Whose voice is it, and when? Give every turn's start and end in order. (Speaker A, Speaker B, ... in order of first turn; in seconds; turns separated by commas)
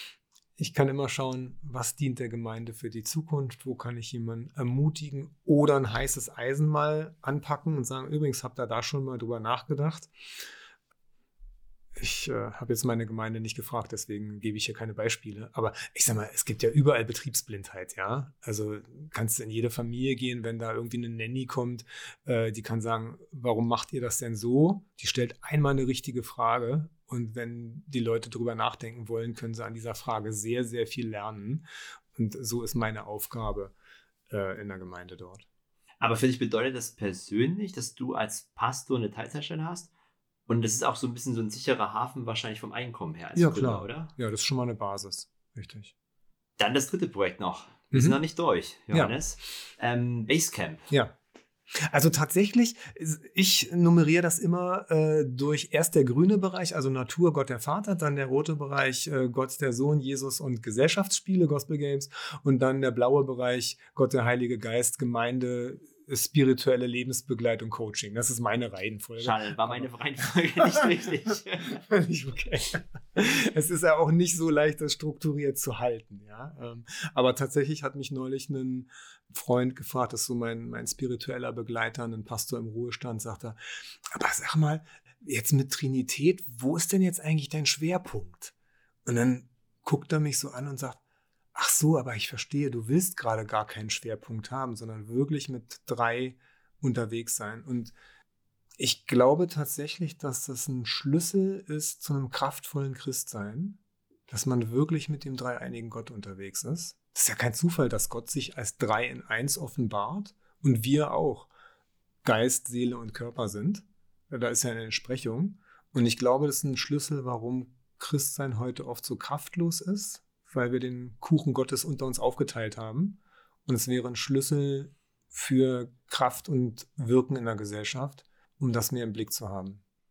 Speaker A: 0.6-10.1, Speaker A: 12.0-33.7, Speaker A: 34.3-35.5, Speaker B: 36.0-39.9, Speaker B: 40.5-44.1, Speaker A: 43.4-45.9, Speaker B: 46.6-50.8, Speaker A: 47.9-48.2, Speaker A: 48.9-49.2, Speaker A: 50.9-51.2, Speaker A: 51.8-69.9, Speaker B: 69.2-71.8, Speaker A: 71.8-83.6, Speaker A: 84.1-88.5, Speaker A: 89.0-91.0, Speaker A: 91.5-98.0, Speaker A: 98.8-111.5, Speaker A: 112.2-129.8